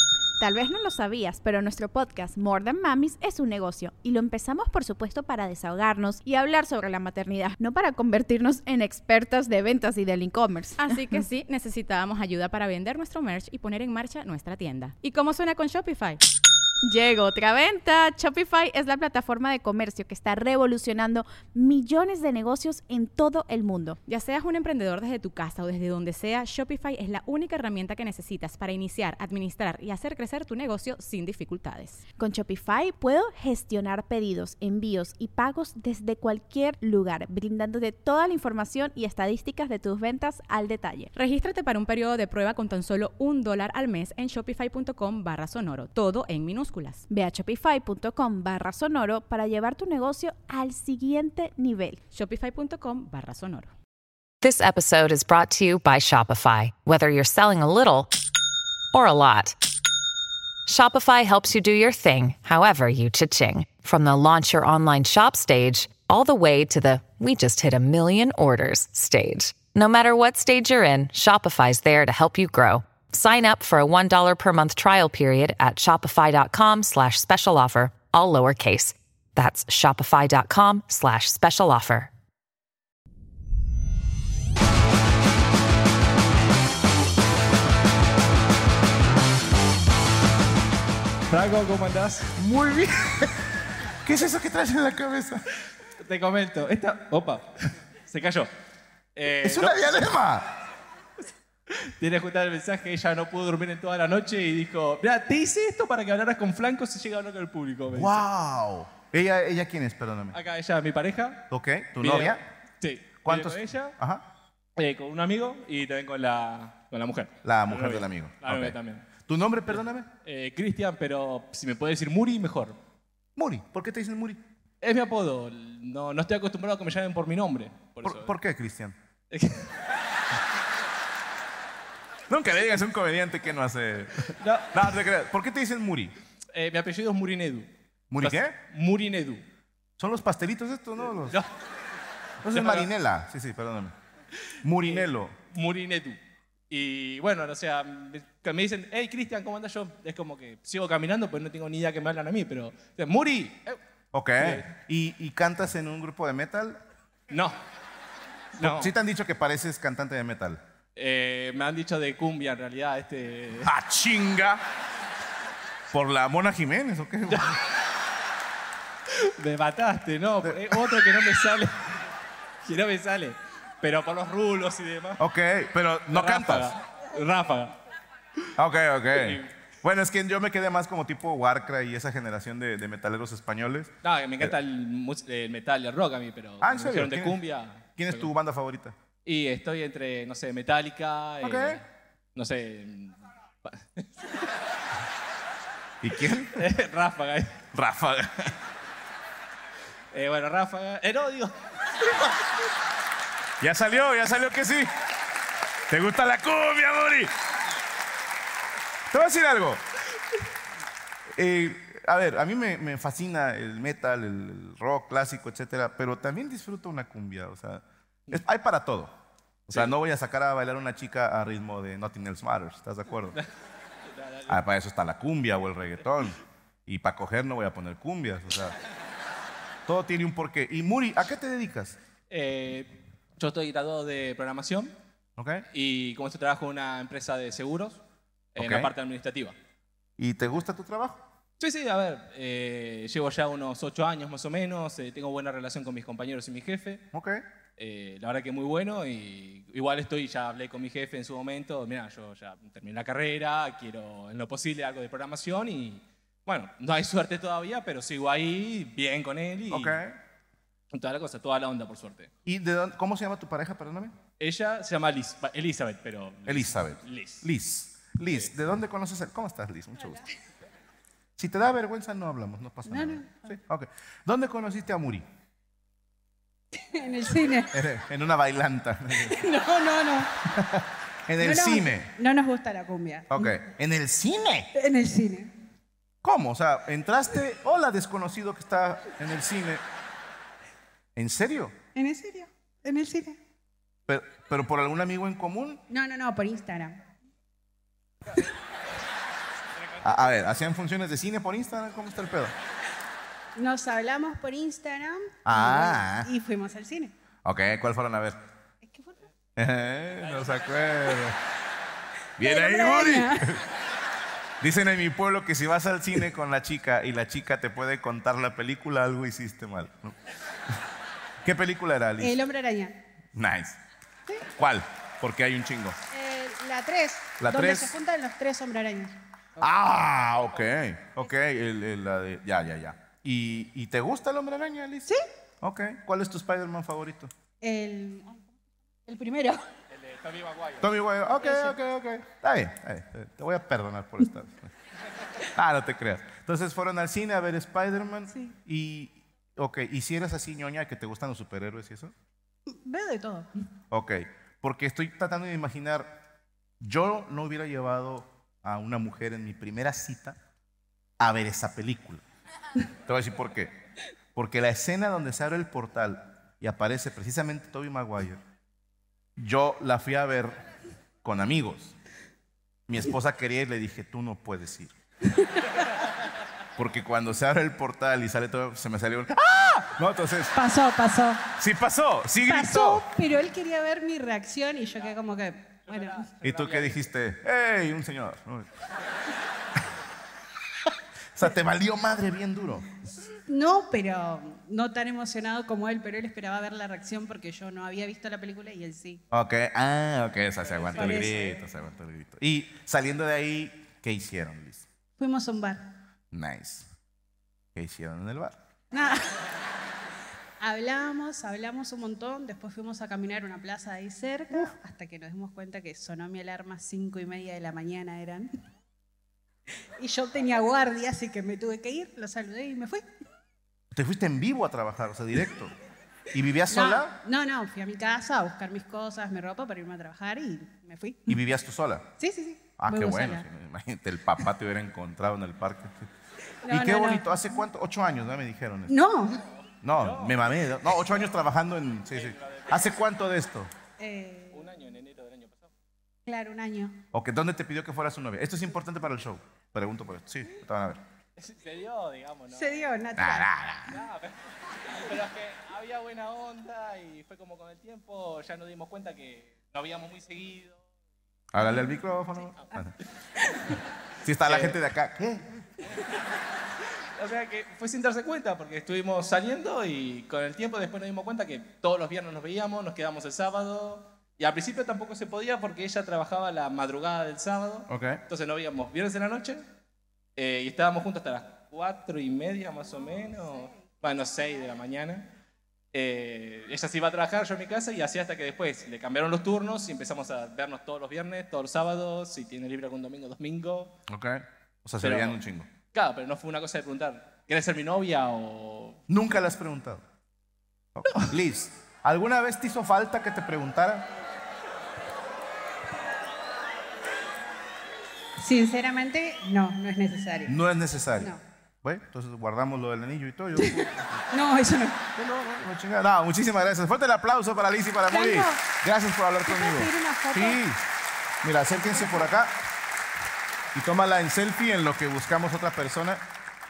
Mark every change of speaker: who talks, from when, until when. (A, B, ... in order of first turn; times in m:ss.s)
0:00.4-0:11.2 A
0:10.8-0:16.2 B
0:16.8-0:24.0 A
0:24.0-0:32.0 B
0:32.2-0:41.1 A
0:41.1-0:47.0 B
0:47.1-0:52.0 A
0:52.1-0:53.7 B
0:54.4-0:58.1 C
0:58.9-0:59.6 C
1:00.6-1:22.1 C
1:31.3-1:32.3 D
1:32.4-1:33.4 E
1:34.0-1:35.4 E
1:36.0-1:37.5 D
1:38.1-1:38.5 D
1:39.1-1:39.9 D
1:39.4-1:40.4 E
1:41.8-1:48.2 D
1:47.9-1:50.4 E
1:50.3-1:51.4 D
1:51.5-1:52.4 E
1:52.0-1:53.9 D
1:53.2-1:54.2 E
1:54.8-1:59.0 D
1:57.4-2:00.1 E
2:00.2-2:02.8 D
2:03.4-2:04.4 E
2:04.8-2:08.3 D
2:08.0-2:09.0 E
2:09.3-2:09.7 D
2:12.3-2:16.1 E
2:14.4-2:15.0 D
2:16.5-2:17.7 D
2:18.1-2:18.6 E
2:18.2-2:19.4 D
2:20.0-2:21.4 E
2:22.4-2:23.9 E
2:22.5-2:22.9 D
2:24.6-2:25.3 E
2:24.8-2:26.2 D
2:26.7-2:33.8 D
2:34.1-2:36.8 E
2:34.4-2:34.6 D
2:37.3-2:37.6 D
2:38.6-2:38.9 D
2:38.6-2:40.6 E
2:41.0-2:43.7 D
2:43.6-2:44.6 E
2:45.9-2:47.5 E
2:47.3-2:47.6 D
2:49.1-2:51.8 D
2:52.6-2:55.2 D
2:55.2-2:56.7 E
2:56.1-2:57.8 D
2:58.6-3:04.5 E
2:59.1-2:59.5 D
3:04.0-3:08.3 D
3:06.6-3:07.4 E
3:08.0-3:08.9 E
3:09.2-3:11.8 D
3:11.4-3:11.8 E
3:12.4-3:14.0 D
3:16.0-3:16.5 E
3:16.5-3:17.5 D
3:17.7-3:18.5 E
3:20.1-3:21.5 D
3:23.6-3:24.9 E
3:25.9-3:27.3 E
3:29.1-3:29.8 E
3:31.3-3:39.1 E
3:39.7-3:43.4 E
3:44.2-3:44.6 D
3:44.5-3:48.8 E
3:49.8-3:52.0 E
3:52.3-3:54.9 D
3:55.4-3:55.6 E
3:55.7-3:58.0 D
3:58.5-3:59.5 D
3:58.6-3:58.9 E
4:00.2-4:01.2 E
4:01.6-4:07.0 D
4:07.1-4:07.4 E
4:07.8-4:20.0 D
4:19.7-4:20.2 E
4:20.9-4:22.3 D
4:22.4-4:24.1 E
4:24.4-4:27.4 D
4:26.4-4:30.2 E
4:31.4-4:35.2 E
4:32.8-4:33.5 F
4:36.8-4:37.7 F
4:37.7-4:39.4 E
4:39.2-4:40.4 F
4:40.5-4:42.1 E
4:41.4-4:43.6 F
4:43.3-4:44.7 E
4:44.7-4:45.5 F
4:46.2-4:49.8 E
4:51.2-4:51.8 E
4:51.9-4:53.4 F
4:54.1-4:55.8 E
4:55.9-4:57.0 F
5:00.0-5:02.5 E
5:03.6-5:07.1 F
5:05.4-5:06.3 E
5:07.4-5:08.4 E
5:08.8-5:09.1 F
5:09.6-5:11.4 E
5:10.3-5:10.8 D
5:12.4-5:13.6 E
5:12.4-5:13.5 F
5:14.6-5:20.1 E
5:21.4-5:22.4 E
5:22.2-5:23.0 F
5:23.3-5:23.8 E
5:24.6-5:26.0 E
5:26.1-5:29.2 F
5:27.4-5:27.9 E
5:29.6-5:35.1 E
5:35.6-5:37.3 E
5:37.6-5:38.4 F
5:39.0-5:39.6 F
5:39.9-5:40.9 D
5:40.8-5:44.7 E
5:41.4-5:41.8 F
5:45.5-5:52.1 E
5:48.3-5:48.5 F
5:52.7-5:53.5 F
5:53.9-5:56.2 E
5:56.8-6:00.4 E
6:01.2-6:02.2 E
6:03.0-6:03.7 E
6:04.4-6:08.4 E
6:09.4-6:10.6 E
6:11.2-6:11.9 E
6:12.9-6:14.9 E
6:16.8-6:20.5 E
6:20.5-6:21.5 F
6:21.6-6:23.0 E
6:22.4-6:26.3 F
6:25.9-6:27.0 D
6:26.4-6:28.7 E
6:31.4-6:32.9 E
6:33.5-6:39.2 F
6:39.3-6:44.8 E
6:40.9-6:41.6 F
6:41.0-6:41.2 D
6:45.2-6:45.8 F
6:46.3-6:46.9 E
6:47.7-6:48.6 E
6:48.9-6:49.4 F
6:50.6-6:58.5 F
7:00.0-7:03.0 F
7:03.9-7:05.7 E
7:06.3-7:07.2 E
7:06.7-7:11.3 F
7:11.3-7:12.1 E
7:12.2-7:13.4 F
7:12.8-7:16.1 E
7:16.6-7:17.3 F
7:16.7-7:18.9 E
7:18.9-7:19.4 F
7:19.8-7:23.7 E
7:19.9-7:20.6 D
7:22.1-7:23.0 D
7:24.0-7:24.7 F
7:24.5-7:25.7 D
7:26.2-7:27.0 F
7:27.1-7:31.0 E
7:31.4-7:33.0 D
7:32.5-7:33.5 F
7:33.2-7:34.0 E
7:33.9-7:34.3 D
7:35.0-7:40.8 D
7:41.5-7:42.9 E
7:44.2-7:45.4 E
7:44.4-7:44.8 D
7:47.2-7:59.6 D
7:57.9-7:58.2 E
8:00.4-8:05.3 D
8:05.9-8:13.9 D
8:14.1-8:15.7 E
8:15.0-8:15.4 D
8:15.9-8:19.0 D
8:19.1-8:20.0 E
8:20.9-8:24.1 E
8:28.4-8:30.6 F
8:30.4-8:34.2 E
8:31.2-8:31.4 F
8:33.6-8:35.0 F
8:35.2-8:40.8 E
8:38.1-8:38.6 F
8:39.4-8:40.6 F
8:41.4-8:42.6 E
8:41.8-8:42.2 F
8:43.7-8:46.2 E